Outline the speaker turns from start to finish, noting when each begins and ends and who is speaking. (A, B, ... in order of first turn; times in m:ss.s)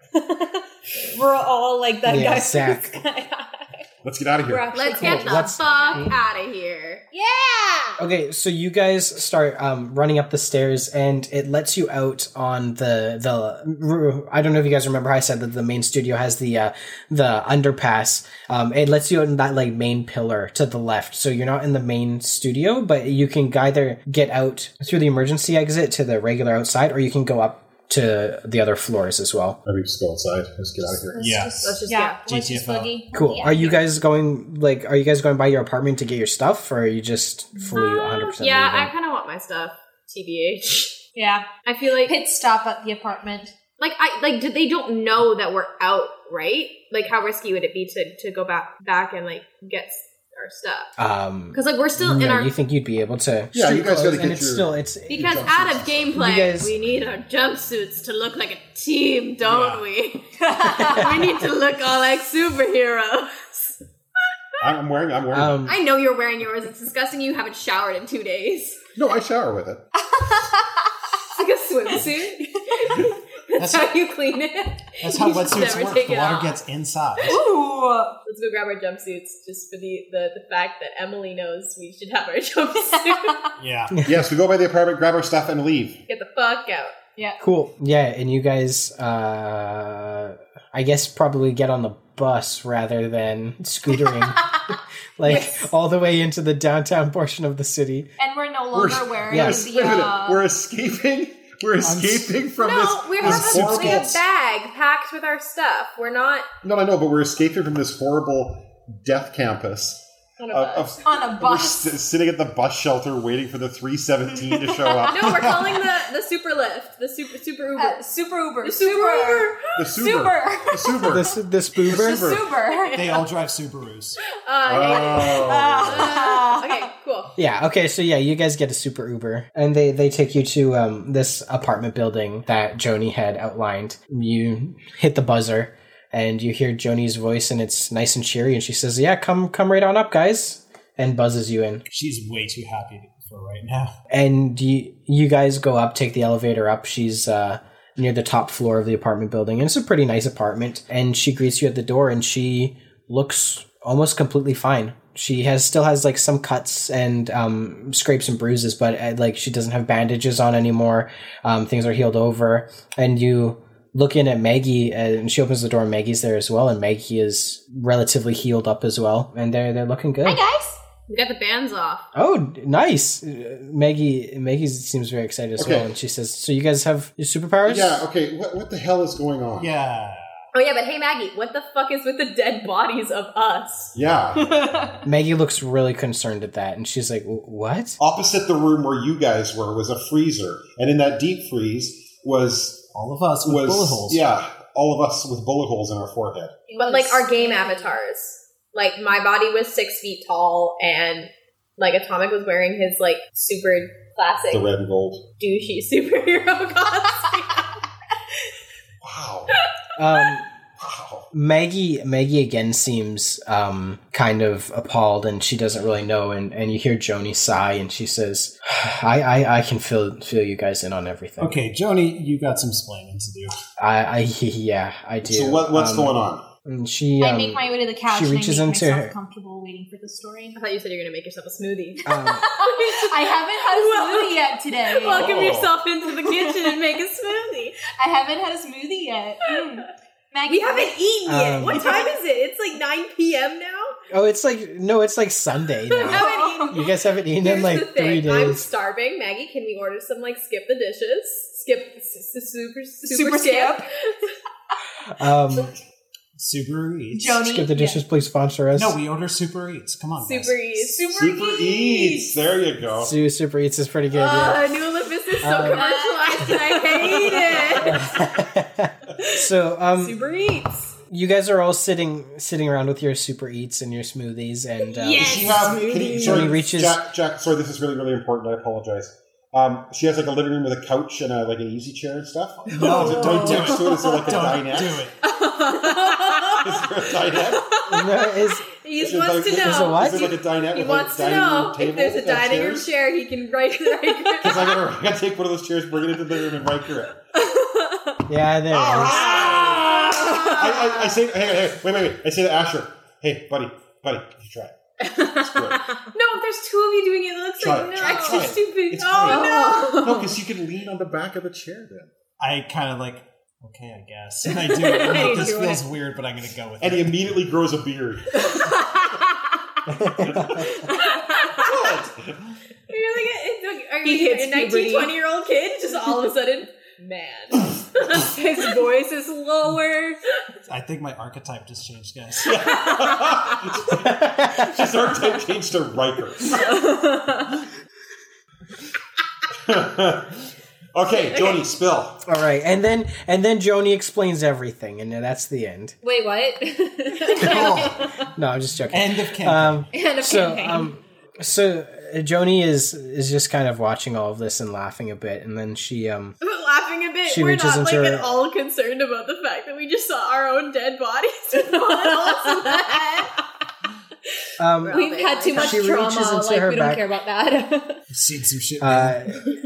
0:00.2-0:03.8 A
0:02.0-0:03.0 B
0:04.0-0:04.7 C
0:04.4-0:06.1 A
0:04.7-0:07.0 D
0:05.0-0:06.1 B
0:07.1-0:08.0 A
0:08.0-0:29.6 B
0:29.6-0:31.4 C
0:31.1-0:33.8 A
0:31.2-0:31.7 E
0:31.6-0:32.2 D
0:32.2-0:33.0 E
0:33.1-0:38.9 B
0:37.7-0:41.0 D
0:41.1-0:43.5 A
0:41.6-0:42.1 D
0:43.8-0:50.9 D
0:51.0-0:55.4 B
0:51.5-0:52.5 D
0:53.5-0:56.2 C
0:55.1-1:03.8 D
0:56.1-0:56.7 B
0:59.4-0:59.8 E
1:00.4-1:01.4 A
1:00.6-1:01.2 B
1:04.6-1:05.7 C
1:05.3-1:05.8 B
1:05.7-1:08.8 D
1:09.0-1:09.8 C
1:10.0-1:10.9 A
1:11.3-1:16.6 D
1:11.7-1:13.1 A
1:13.6-1:13.9 E
1:15.0-1:17.4 E
1:17.2-1:18.2 A
1:18.2-1:23.4 D
1:22.9-1:23.5 A
1:23.6-1:24.0 E
1:24.0-1:26.0 C
1:26.1-1:27.0 D
1:27.4-1:34.5 B
1:35.2-1:38.1 B
1:35.3-1:35.5 D
1:35.3-1:35.6 A
1:38.2-1:40.4 A
1:38.7-1:44.2 C
1:39.3-1:39.7 B
1:41.8-1:42.4 E
1:42.6-1:46.5 D
1:43.2-1:44.1 E
1:46.6-1:55.7 C
1:50.4-1:51.0 D
1:51.0-1:52.0 A
1:54.9-1:55.1 A
1:55.1-1:58.0 D
1:55.3-1:55.6 E
1:57.8-2:01.3 A
1:58.6-1:59.6 D
1:59.8-2:01.3 C
2:01.1-2:02.4 B
2:01.8-2:03.0 A
2:01.9-2:02.5 C
2:02.7-2:03.2 D
2:02.9-2:04.2 E
2:04.4-2:07.3 D
2:04.6-2:06.2 C
2:04.9-2:06.8 A
2:07.3-2:21.8 B
2:21.9-2:24.0 E
2:24.1-2:50.4 B
2:50.2-2:50.8 A
2:51.1-2:52.1 D
2:52.1-2:58.0 B
2:55.6-2:55.9 C
2:57.6-2:59.7 C
2:59.6-3:00.3 E
3:00.5-3:03.9 D
3:03.9-3:04.6 C
3:04.5-3:04.9 A
3:05.0-3:08.0 B
3:08.0-3:12.9 C
3:12.9-3:14.2 E
3:13.4-3:16.6 C
3:16.7-3:17.9 A
3:16.8-3:24.6 D
3:24.5-3:25.2 C
3:25.4-3:27.8 D
3:29.0-3:29.6 C
3:30.0-3:30.5 B
3:30.8-3:31.3 C
3:31.3-3:41.6 B
3:41.4-3:43.5 E
3:43.8-3:49.1 B
3:45.2-3:46.4 C
3:47.2-3:50.6 A
3:50.6-3:57.8 D
3:52.0-3:52.5 B
3:52.1-3:55.4 A
3:55.0-3:55.8 C
3:56.1-3:56.7 A
3:57.8-4:01.0 A
4:00.5-4:03.9 D
4:01.2-4:02.0 B
4:01.6-4:02.2 A
4:04.1-4:08.7 B
4:05.9-4:14.3 D
4:05.9-4:06.8 A
4:13.0-4:13.9 A
4:15.0-4:15.7 B
4:16.4-4:17.5 E
4:17.1-4:18.0 A
4:17.4-4:19.0 B
4:18.8-4:20.6 E
4:20.2-4:21.0 D
4:20.8-4:22.4 A
4:21.1-4:23.2 C
4:23.0-4:24.8 B
4:24.1-4:28.2 D
4:25.4-4:25.9 B
4:25.4-4:28.3 A
4:27.8-4:30.2 B
4:29.2-4:29.4 D
4:30.0-4:31.0 D
4:31.1-4:37.0 B
4:34.9-4:36.4 A
4:35.0-4:35.7 D
4:35.2-4:45.1 C
4:42.7-4:45.2 E
4:42.8-4:44.3 A
4:45.3-4:46.6 A
4:45.4-4:46.7 D
4:46.6-4:47.6 C
4:47.5-4:54.7 D
4:47.9-4:48.7 B
4:49.0-4:52.9 C
4:49.5-4:50.3 B
4:54.4-4:57.2 C
4:57.4-4:58.2 D
4:58.3-4:59.3 B
4:58.7-5:04.7 C
4:59.3-5:00.5 A
4:59.3-5:00.8 D
5:05.0-5:05.5 D
5:05.4-5:06.1 A
5:05.5-5:05.8 C
5:06.1-5:10.3 D
5:07.6-5:12.1 C
5:08.0-5:08.5 A
5:09.2-5:10.1 A
5:12.4-5:17.4 E
5:14.5-5:15.8 D
5:15.0-5:15.8 A
5:16.8-5:18.4 C
5:18.4-5:19.2 D
5:18.4-5:18.8 A
5:19.8-5:20.8 B
5:20.2-5:20.7 C
5:20.6-5:21.8 D
5:21.5-5:22.4 C
5:22.9-5:30.4 D
5:24.0-5:25.1 A
5:28.3-5:28.9 A
5:30.6-5:32.8 E
5:32.4-5:36.8 C
5:34.0-5:34.8 B
5:36.5-5:37.6 A
5:39.6-5:42.2 C
5:42.2-5:46.0 B
5:46.0-5:48.1 A
5:47.1-5:48.0 D
5:47.4-5:48.1 E
5:48.2-5:56.4 B
5:48.9-5:49.8 E
5:49.9-5:50.6 D
5:49.9-5:50.9 A
5:56.4-6:03.4 D
5:57.2-5:58.3 B
6:02.2-6:02.8 A
6:04.6-6:05.0 B
6:04.8-6:05.8 D
6:04.9-6:08.0 A
6:05.5-6:07.1 B
6:08.1-6:09.2 E
6:08.8-6:09.4 B